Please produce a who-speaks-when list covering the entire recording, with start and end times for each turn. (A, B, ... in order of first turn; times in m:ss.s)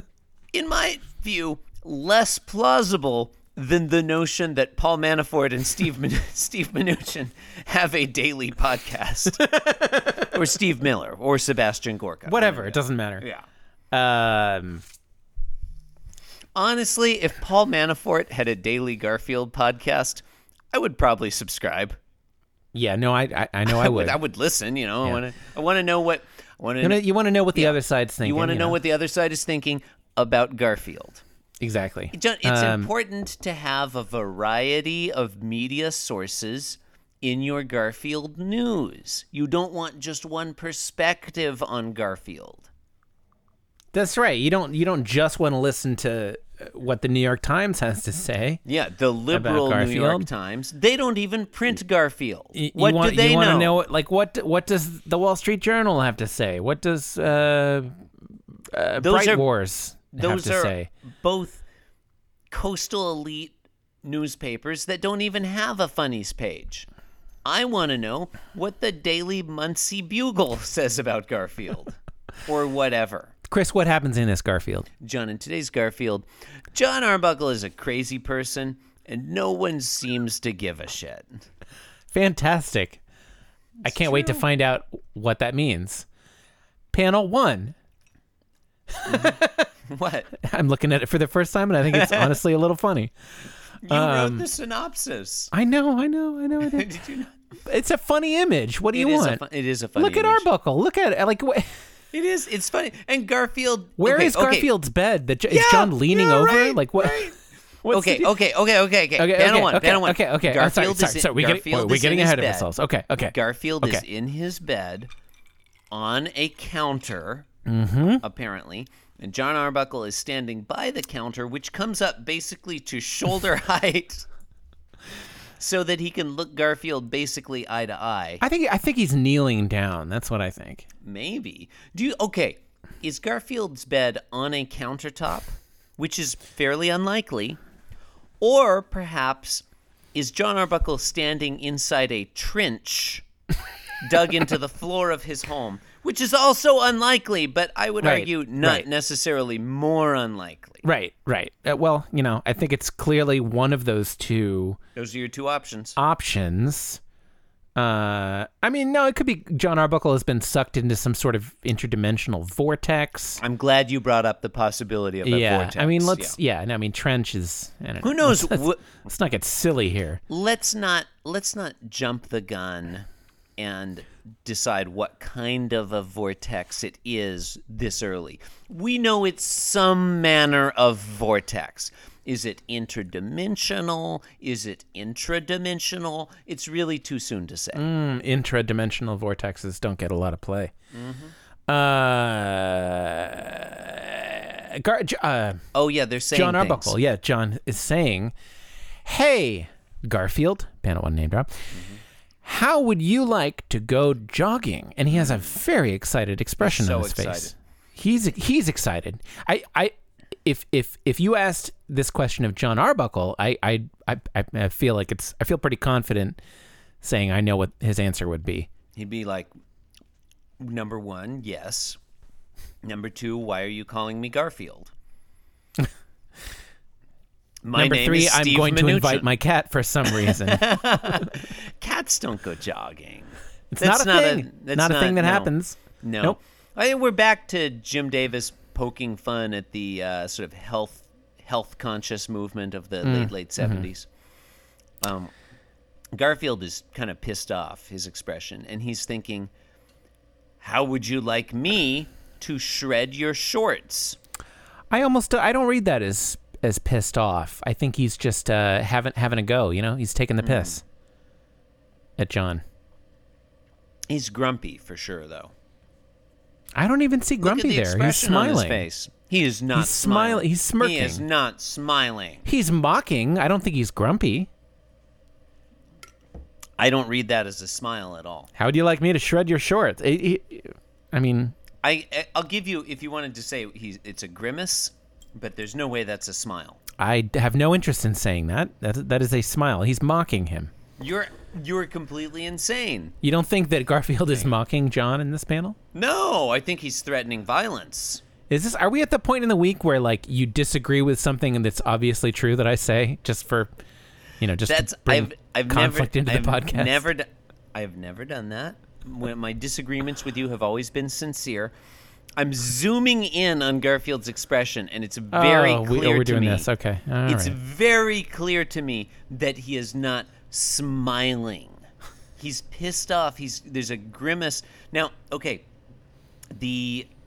0:00.5-0:09.5 A
0:09.5-0:10.3 B
0:10.2-0:13.4 A
0:12.3-0:13.2 B
0:13.9-0:14.8 B
0:16.5-0:22.0 A
0:22.7-0:24.2 B
0:23.6-0:31.2 A
0:26.8-0:28.8 B
0:31.6-0:32.9 B
0:32.1-0:42.7 A
0:43.9-0:48.6 B
0:48.6-0:53.8 A
0:49.3-0:50.3 B
0:52.5-0:57.9 B
0:58.7-1:00.9 B
0:59.0-0:59.4 A
1:00.1-1:01.6 A
1:02.5-1:06.9 A
1:07.4-1:13.3 A
1:13.4-1:14.9 B
1:15.0-1:21.4 A
1:22.1-1:23.0 B
1:23.8-1:24.4 A
1:23.8-1:26.0 B
1:26.9-1:27.7 B
1:28.9-1:29.7 B
1:29.1-1:30.4 A
1:30.4-1:33.1 B
1:31.9-1:32.4 A
1:33.8-1:35.5 A
1:33.9-1:34.4 B
1:35.5-1:36.9 B
1:36.6-1:37.3 A
1:37.6-1:39.4 B
1:38.9-1:40.4 A
1:40.0-1:41.6 B
1:42.1-1:44.7 A
1:44.0-1:47.3 B
1:45.5-1:47.4 A
1:47.8-1:48.3 B
1:47.9-1:52.7 A
1:49.2-1:54.0 B
1:53.2-1:55.1 A
1:55.9-1:57.5 A
1:57.6-1:58.2 B
1:58.2-2:04.3 A
2:05.6-2:08.4 A
2:08.4-2:10.8 B
2:11.0-2:17.6 A
2:18.4-2:23.2 A
2:24.0-2:30.8 A
2:28.0-2:28.8 B
2:30.8-2:34.8 B
2:35.0-2:36.0 A
2:36.0-2:37.0 B
2:37.8-2:43.4 B
2:43.4-2:46.4 A
2:45.2-2:50.2 B
2:48.0-2:48.9 A
2:50.3-2:53.1 A
2:53.6-3:07.8 A
3:07.7-3:10.7 B
3:10.9-3:11.3 A
3:11.7-3:15.6 B
3:15.7-3:17.0 A
3:16.3-3:18.3 B
3:19.0-3:21.7 B
3:21.7-3:22.0 A
3:22.4-3:36.4 B
3:25.1-3:25.6 A
3:26.6-3:27.5 A
3:37.0-3:38.7 B
3:38.9-3:39.5 A
3:40.6-3:42.0 A
3:42.8-3:44.9 A
3:47.6-3:49.3 A
3:47.7-3:50.6 B
3:50.0-4:04.1 A
3:53.7-3:56.4 B
4:03.0-4:03.9 B
4:05.0-4:05.3 A
4:06.1-4:09.5 A
4:10.6-4:14.2 A
4:14.9-4:20.8 B
4:20.4-4:20.8 A
4:22.2-4:22.6 B
4:24.1-4:25.5 A
4:26.8-4:28.8 B
4:27.4-4:32.4 A
4:29.7-4:31.2 B
4:32.4-4:34.5 B
4:36.8-4:38.5 A
4:38.6-4:41.5 B
4:41.8-4:46.8 A
4:47.0-4:50.7 B
4:51.0-4:53.1 A
4:53.2-4:55.8 B
4:55.9-4:58.2 A
4:58.5-5:03.7 B
5:04.4-5:07.0 B
5:04.7-5:11.7 A
5:12.4-5:16.7 A
5:15.3-5:17.6 B
5:17.2-5:21.8 A
5:22.4-5:25.7 A
5:26.5-5:27.1 A